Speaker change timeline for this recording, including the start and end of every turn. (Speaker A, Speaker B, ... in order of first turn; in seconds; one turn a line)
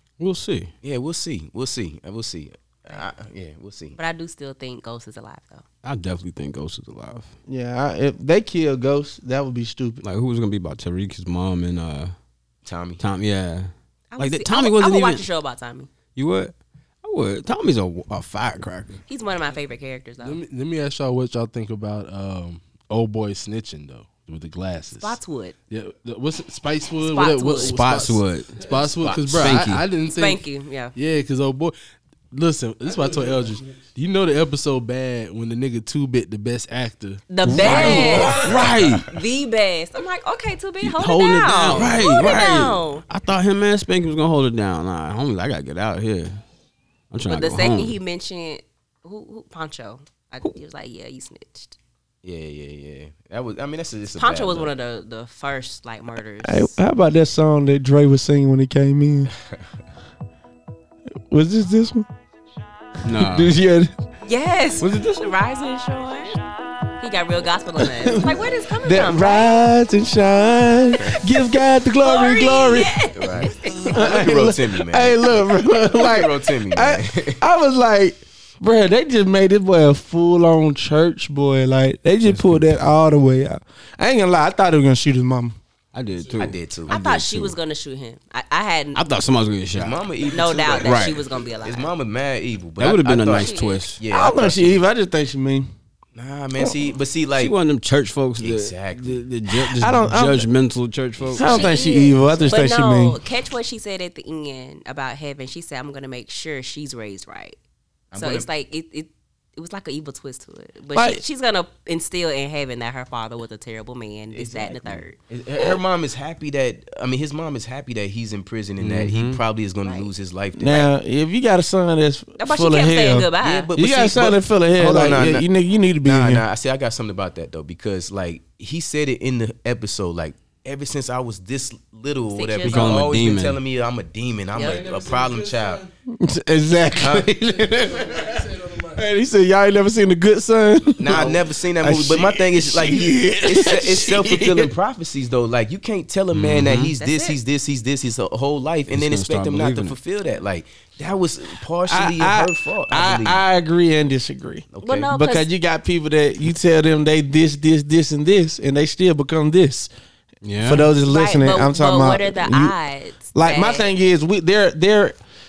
Speaker A: 0.2-0.7
Speaker B: 0.8-4.0
Speaker C: 4.0-5.6
Speaker A: 5.8-7.3
Speaker D: 7.5-10.0
Speaker A: 10.0-12.1
Speaker B: 12.6-13.0
Speaker A: 13.0-15.3
Speaker C: 14.1-15.9
Speaker A: 16.1-19.0
Speaker C: 19.1-20.4
Speaker E: 20.2-25.2
Speaker C: 25.0-25.5
Speaker E: 25.7-31.7
Speaker C: 27.0-27.8
Speaker A: 27.6-28.6
Speaker B: 29.0-29.6
Speaker A: 29.3-29.8
Speaker C: 30.0-30.9
Speaker E: 32.3-38.2
Speaker C: 37.3-38.4
Speaker A: 37.4-39.1
Speaker B: 37.6-38.6
Speaker C: 39.0-43.0
Speaker A: 40.8-46.4
Speaker A: 47.1-48.0
Speaker C: 47.2-51.8
Speaker B: 52.2-54.7
Speaker C: 54.2-56.8
Speaker D: 56.4-59.3
Speaker D: 61.3-62.0
Speaker A: 63.0-63.5
Speaker D: 63.1-63.9
Speaker C: 64.2-66.4
Speaker A: 64.8-65.2
Speaker C: 67.0-69.7
Speaker D: 67.8-72.9
Speaker C: 72.0-74.0
Speaker B: 73.1-77.4
Speaker D: 73.7-85.6
Speaker A: 82.2-82.6
Speaker A: 85.9-87.6
Speaker B: 86.3-86.9
Speaker C: 86.9-89.0
Speaker A: 88.9-90.0
Speaker B: 89.7-94.8
Speaker C: 90.3-91.9
Speaker A: 90.8-91.2
Speaker A: 92.8-94.0
Speaker C: 93.3-93.9
Speaker D: 94.1-95.7
Speaker B: 96.1-97.5
Speaker A: 97.3-101.7
Speaker B: 98.4-99.2
Speaker D: 99.5-100.5
Speaker B: 101.2-101.8
Speaker D: 101.3-103.2
Speaker C: 101.5-107.6
Speaker B: 108.1-108.5
Speaker C: 108.1-115.2
Speaker D: 110.9-111.2
Speaker B: 114.3-120.9
Speaker A: 118.8-119.4
Speaker D: 120.6-126.4
Speaker C: 122.4-123.7
Speaker B: 123.4-125.5
Speaker B: 126.0-135.8
Speaker C: 132.3-133.0
Speaker A: 132.6-133.6
Speaker C: 134.5-134.8
Speaker E: 134.5-135.9
Speaker D: 136.2-138.3
Speaker B: 137.0-137.3
Speaker E: 137.6-139.0
Speaker D: 138.9-144.7
Speaker B: 141.0-153.4
Speaker A: 146.3-146.9
Speaker C: 147.0-147.4
Speaker A: 148.9-149.9
Speaker D: 151.9-159.9
Speaker B: 154.7-155.1
Speaker C: 154.8-155.5
Speaker A: 160.4-160.9
Speaker D: 160.6-162.7
Speaker C: 161.0-163.9
Speaker D: 163.3-165.2